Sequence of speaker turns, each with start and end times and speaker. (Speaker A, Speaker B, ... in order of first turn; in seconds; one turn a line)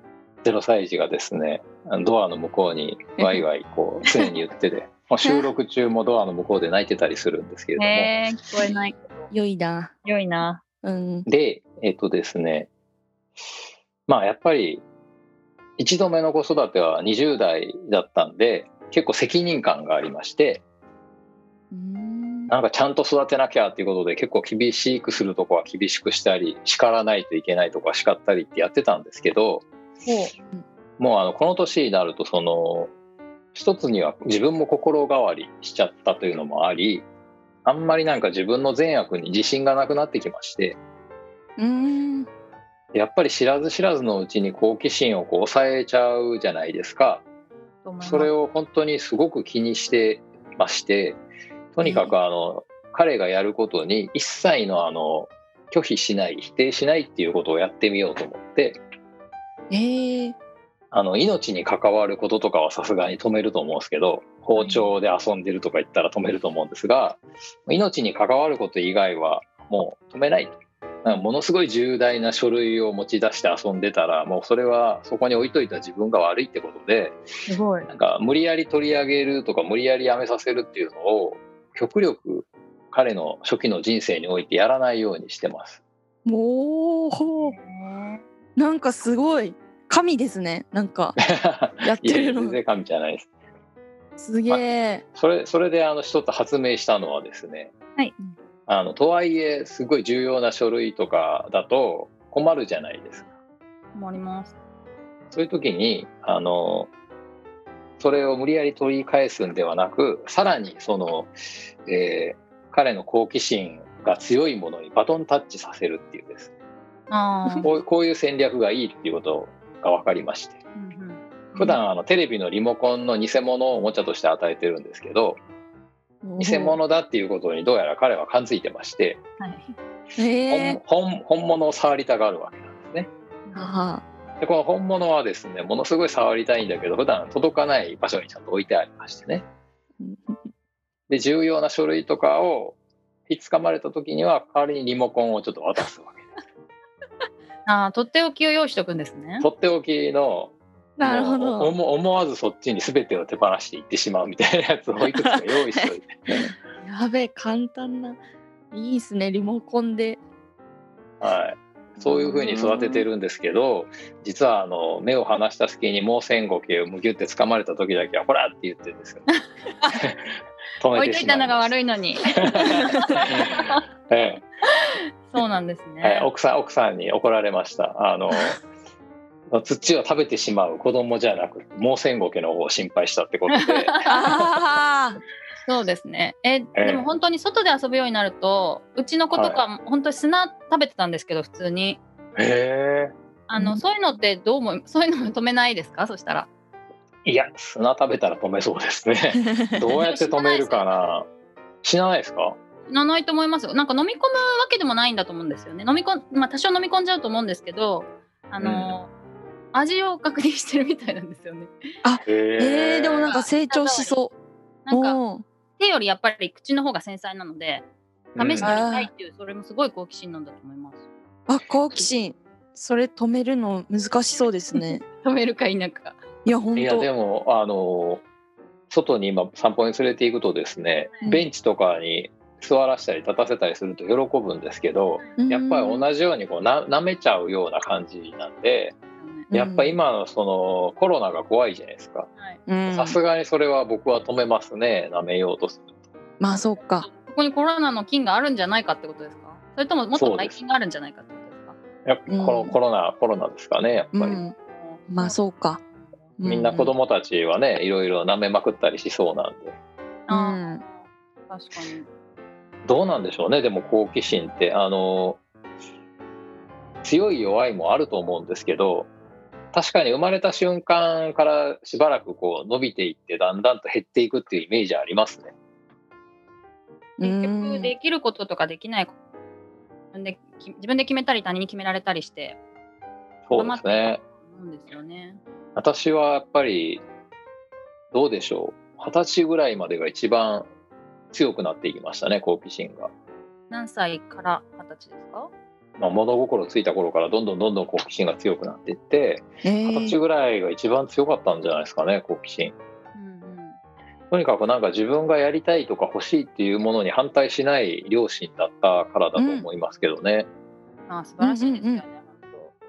Speaker A: 0.4-8.2
Speaker B: 7.8-9.3
Speaker C: 9.3-9.9
Speaker B: 10.1-10.6
Speaker C: 10.8-11.3
Speaker A: 11.3-12.7
Speaker A: 14.1-14.8
Speaker A: 15.8-20.6
Speaker C: 21.7-22.5
Speaker A: 22.5-29.7
Speaker B: 30.1-30.3
Speaker A: 31.0-32.9
Speaker A: 33.5-37.1
Speaker A: 37.6-40.8
Speaker C: 41.6-42.3
Speaker A: 42.9-47.2
Speaker B: 47.8-48.3
Speaker A: 48.0-51.2
Speaker A: 51.7-58.8
Speaker C: 51.8-52.1
Speaker C: 59.7-60.4
Speaker A: 60.9-77.2
Speaker B: 64.6-64.9
Speaker B: 77.5-77.9
Speaker A: 77.9-85.8
Speaker C: 86.3-87.5
Speaker B: 87.4-88.2
Speaker C: 88.6-91.2
Speaker A: 91.2-93.3
Speaker C: 91.8-92.6
Speaker C: 94.2-95.0
Speaker A: 94.5-97.7
Speaker A: 98.7-103.3
Speaker B: 104.0-104.6
Speaker A: 105.3-106.9
Speaker A: 108.0-111.3
Speaker A: 111.9-116.5
Speaker B: 117.1-117.7
Speaker A: 117.6-120.6
Speaker B: 120.8-121.8
Speaker A: 121.6-125.4
Speaker C: 126.2-126.8
Speaker A: 126.4-129.2
Speaker B: 129.4-129.7
Speaker C: 130.2-130.8
Speaker A: 130.5-133.1
Speaker B: 133.5-133.7
Speaker C: 133.6-134.0
Speaker A: 134.4-139.4
Speaker C: 140.0-140.4
Speaker A: 141.1-142.8
Speaker A: 143.3-146.2
Speaker B: 147.7-149.5
Speaker A: 149.4-156.4
Speaker C: 151.0-151.8
Speaker C: 155.2-155.5
Speaker C: 156.4-158.2
Speaker C: 158.7-160.2
Speaker A: 161.2-169.3
Speaker C: 162.0-163.1
Speaker A: 169.9-170.3
Speaker A: 170.8-171.7
Speaker B: 170.9-173.2
Speaker A: 173.2-174.4
Speaker B: 175.3-176.3
Speaker A: 176.0-178.6
Speaker A: 179.5-184.5
Speaker C: 184.1-185.2
Speaker B: 185.7-192.0
Speaker A: 186.8-187.1
Speaker A: 189.3-189.6
Speaker A: 192.4-193.1
Speaker B: 193.5-196.5
Speaker A: 197.2-201.3
Speaker B: 200.1-200.9
Speaker A: 201.8-202.6
Speaker B: 202.9-209.1
Speaker A: 208.6-209.0
Speaker B: 209.7-211.7
Speaker C: 212.0-214.3
Speaker A: 212.2-213.3
Speaker B: 213.3-214.2
Speaker B: 214.9-215.2
Speaker C: 214.9-215.4
Speaker B: 215.8-217.9
Speaker A: 218.4-218.8
Speaker B: 218.4-221.0
Speaker C: 218.6-219.1
Speaker C: 221.5-225.0
Speaker B: 224.8-226.2
Speaker C: 226.4-227.1
Speaker A: 226.8-228.2
Speaker A: 228.9-239.0
Speaker C: 235.4-236.1
Speaker B: 239.2-239.5
Speaker C: 239.5-239.9
Speaker A: 239.5-242.3
Speaker C: 242.7-243.2
Speaker A: 242.9-245.9
Speaker C: 246.4-247.1
Speaker B: 246.5-251.8
Speaker A: 250.1-250.6
Speaker A: 252.1-254.4
Speaker C: 252.3-252.8
Speaker C: 254.1-254.6
Speaker B: 254.7-255.4
Speaker C: 255.1-255.8
Speaker C: 256.4-256.9
Speaker A: 256.4-259.8
Speaker B: 260.3-262.1
Speaker C: 260.3-260.8
Speaker A: 262.9-265.4
Speaker A: 267.0-269.1
Speaker A: 269.7-275.5
Speaker C: 277.2-277.9
Speaker B: 277.2-279.1
Speaker B: 280.1-282.6
Speaker A: 283.5-284.2
Speaker B: 283.6-285.4
Speaker A: 285.8-287.0
Speaker A: 288.1-290.7
Speaker A: 291.3-293.1
Speaker B: 293.7-295.5
Speaker A: 296.0-302.8
Speaker C: 299.6-300.2
Speaker B: 303.1-303.8
Speaker A: 304.3-310.5
Speaker C: 309.4-309.7
Speaker B: 311.1-312.8
Speaker C: 311.4-312.1